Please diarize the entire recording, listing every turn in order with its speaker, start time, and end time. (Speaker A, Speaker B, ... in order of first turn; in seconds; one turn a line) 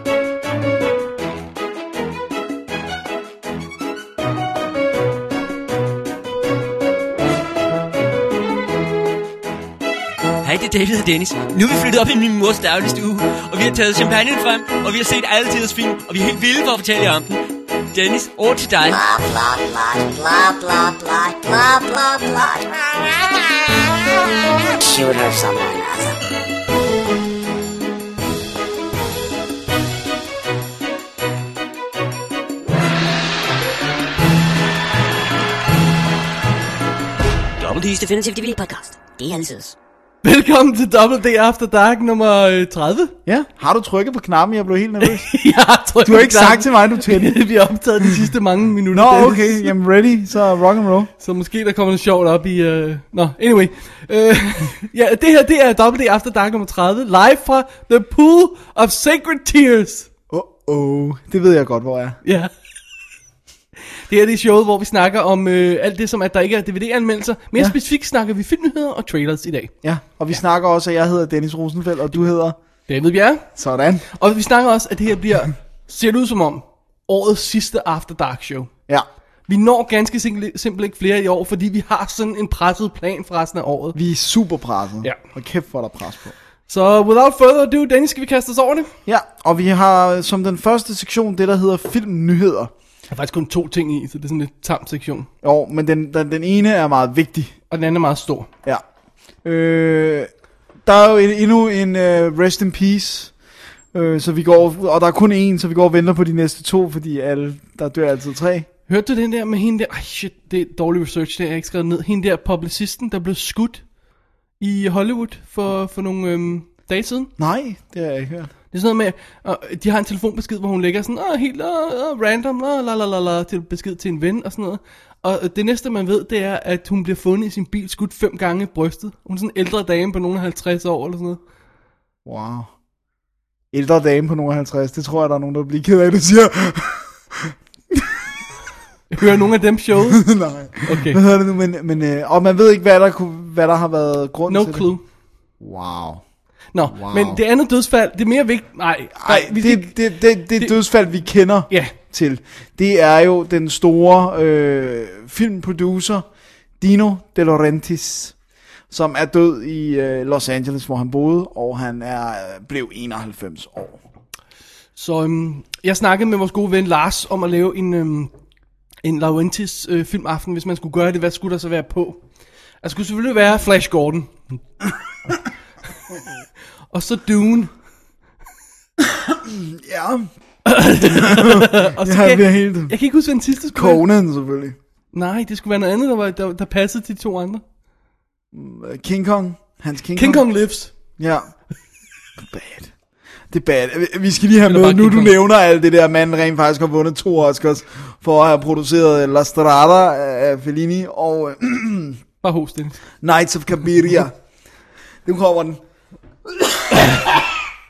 Speaker A: 10.4-19.0
Speaker B: 18.8-22.9
Speaker B: 24.7-26.2
Speaker B: 37.6-39.7
Speaker C: 40.2-43.1
Speaker D: 43.2-45.4
Speaker C: 45.0-49.7
Speaker D: 46.0-47.4
Speaker D: 48.9-51.1
Speaker C: 51.2-60.1
Speaker D: 60.3-62.2
Speaker C: 62.2-62.5
Speaker C: 64.0-69.7
Speaker D: 69.8-72.6
Speaker C: 72.9-73.5
Speaker D: 73.5-74.0
Speaker C: 74.1-78.7
Speaker C: 79.5-84.0
Speaker D: 83.9-86.3
Speaker C: 86.7-88.9
Speaker D: 89.0-92.7
Speaker C: 93.1-95.3
Speaker D: 95.4-97.5
Speaker C: 97.7-98.5
Speaker D: 99.4-100.3
Speaker D: 100.8-103.3
Speaker D: 103.9-108.7
Speaker C: 108.9-113.8
Speaker C: 114.6-117.3
Speaker D: 117.4-118.5
Speaker C: 118.7-131.4
Speaker D: 132.2-132.7
Speaker D: 133.7-138.2
Speaker C: 139.1-140.3
Speaker D: 140.1-144.9
Speaker C: 140.8-141.2
Speaker C: 144.5-145.0
Speaker D: 145.6-146.2
Speaker C: 146.7-150.8
Speaker D: 146.9-147.4
Speaker D: 149.2-156.2
Speaker C: 151.7-151.9
Speaker D: 156.8-158.3
Speaker D: 158.9-164.0
Speaker C: 164.9-168.3
Speaker C: 169.0-172.2
Speaker C: 172.8-174.6
Speaker C: 176.9-177.7
Speaker D: 179.0-180.3
Speaker C: 180.6-184.0
Speaker D: 181.0-182.9
Speaker D: 183.7-184.8
Speaker C: 185.1-187.6
Speaker D: 188.5-190.4
Speaker C: 190.1-190.9
Speaker D: 191.2-191.5
Speaker D: 192.4-192.9
Speaker D: 193.5-202.2
Speaker C: 194.7-195.3
Speaker C: 202.4-203.0
Speaker D: 203.2-204.3
Speaker D: 205.2-205.8
Speaker D: 206.5-207.2